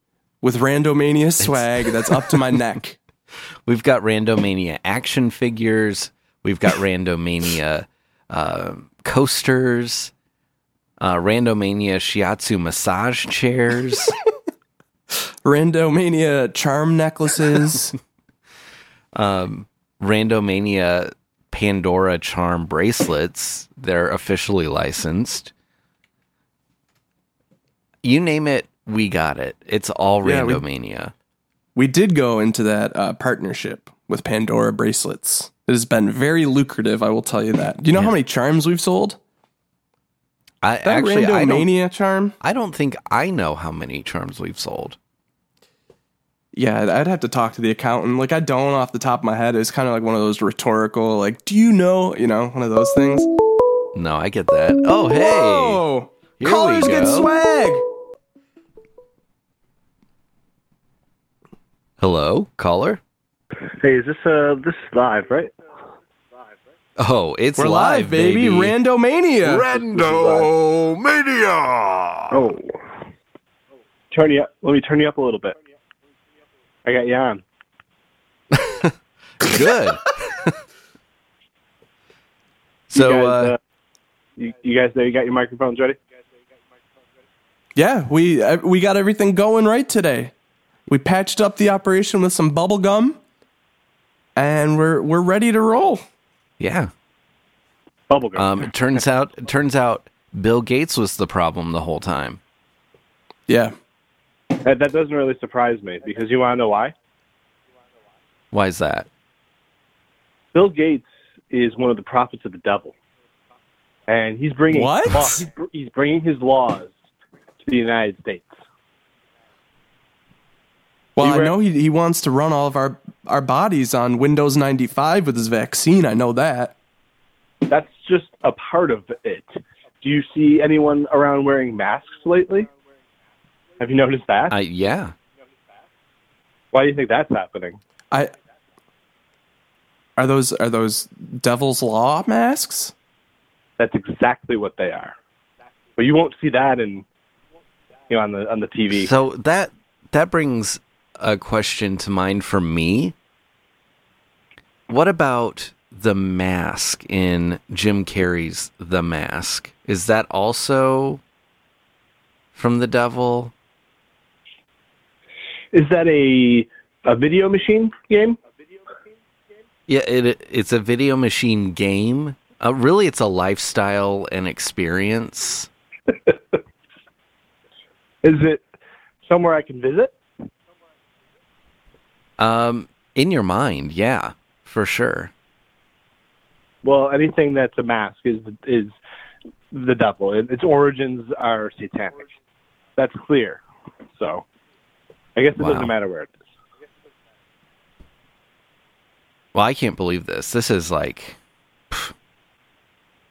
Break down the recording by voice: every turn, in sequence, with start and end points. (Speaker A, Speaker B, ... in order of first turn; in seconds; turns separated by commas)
Speaker A: 0.4-3.0, Speaker B: 1.4-2.3, Speaker B: 3.6-10.1, Speaker B: 11.0-14.2, Speaker A: 15.4-17.9, Speaker B: 19.1-25.5, Speaker B: 28.0-31.1, Speaker A: 30.2-30.6, Speaker A: 31.7-39.2, Speaker B: 40.6-41.7, Speaker A: 40.8-42.4, Speaker B: 42.4-45.0, Speaker A: 46.5-53.3, Speaker B: 53.9-55.8, Speaker A: 55.1-57.9, Speaker B: 56.4-57.3, Speaker B: 62.0-63.0, Speaker C: 63.8-65.5, Speaker B: 67.0-68.7, Speaker A: 67.6-69.7, Speaker D: 69.4-72.4, Speaker C: 69.9-70.5, Speaker C: 72.3-72.7, Speaker C: 74.1-75.6, Speaker C: 76.8-77.4, Speaker B: 78.5-80.5, Speaker B: 82.9-83.5, Speaker C: 82.9-83.6, Speaker C: 84.4-86.0, Speaker A: 87.8-90.3, Speaker A: 90.9-93.2, Speaker A: 94.3-96.0, Speaker B: 96.6-96.9, Speaker C: 98.1-98.7, Speaker B: 98.3-102.4, Speaker A: 103.5-103.7, Speaker C: 104.6-106.9, Speaker B: 108.5-109.1, Speaker C: 110.5-112.9, Speaker C: 114.1-116.9, Speaker A: 114.7-115.3, Speaker C: 117.6-118.5, Speaker A: 121.2-126.7, Speaker C: 121.2-121.5, Speaker C: 127.7-132.7, Speaker C: 133.8-134.5, Speaker B: 134.5-135.1, Speaker C: 136.7-137.8, Speaker A: 140.2-142.9, Speaker C: 143.8-145.1, Speaker C: 146.0-147.0, Speaker C: 148.1-149.1, Speaker B: 148.9-153.1, Speaker B: 154.9-161.2, Speaker B: 162.5-163.5, Speaker C: 165.7-168.4, Speaker B: 169.9-175.7, Speaker C: 176.1-176.6, Speaker C: 178.2-178.6, Speaker C: 179.2-180.2, Speaker B: 182.4-185.3, Speaker C: 186.8-188.9, Speaker C: 189.7-192.3, Speaker C: 193.0-193.6, Speaker C: 194.1-194.4, Speaker C: 195.3-196.3, Speaker B: 195.6-195.9, Speaker B: 199.5-201.4